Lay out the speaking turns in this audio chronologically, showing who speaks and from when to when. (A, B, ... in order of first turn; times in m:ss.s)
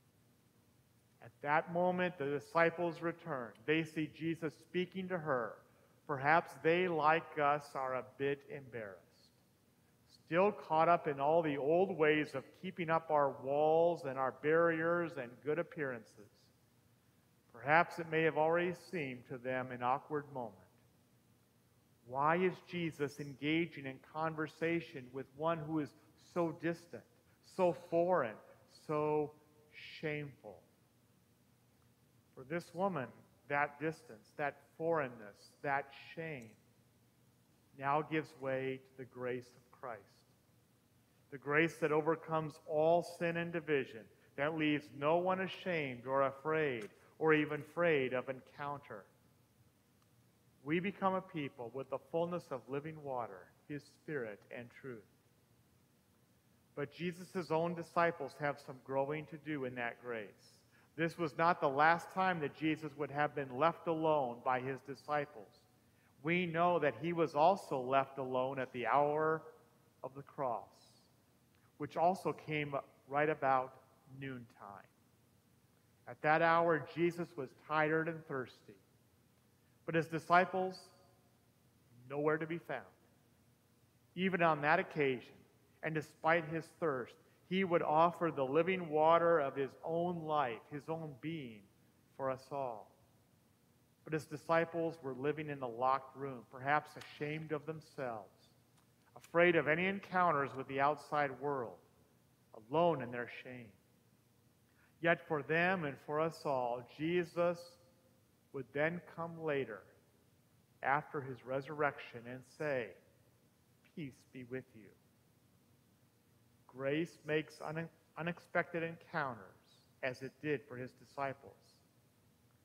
0:01.2-0:09.3 A
0:10.1-0:16.5 A
0:17.5-0:20.7 A
0:22.0-0:30.7 A
0:32.3-0:36.6 A
0:37.7-0:40.3 A
0:41.3-0:49.1 A
0:50.6-0:55.1 A
0:56.7-1:05.6 A
1:06.2-1:09.5 A
1:10.0-1:11.1 A
1:11.8-1:14.9 A
1:16.1-1:18.8 A
1:19.8-1:20.9 A
1:22.0-1:22.9 A
1:24.1-1:32.9 A
1:34.0-1:38.5 A
1:39.1-1:41.8 A
1:42.5-1:43.8 A
1:45.0-1:47.8 A
1:48.5-1:49.9 A
1:50.8-1:53.0 A
1:53.8-1:55.0 A
1:56.7-2:01.8 A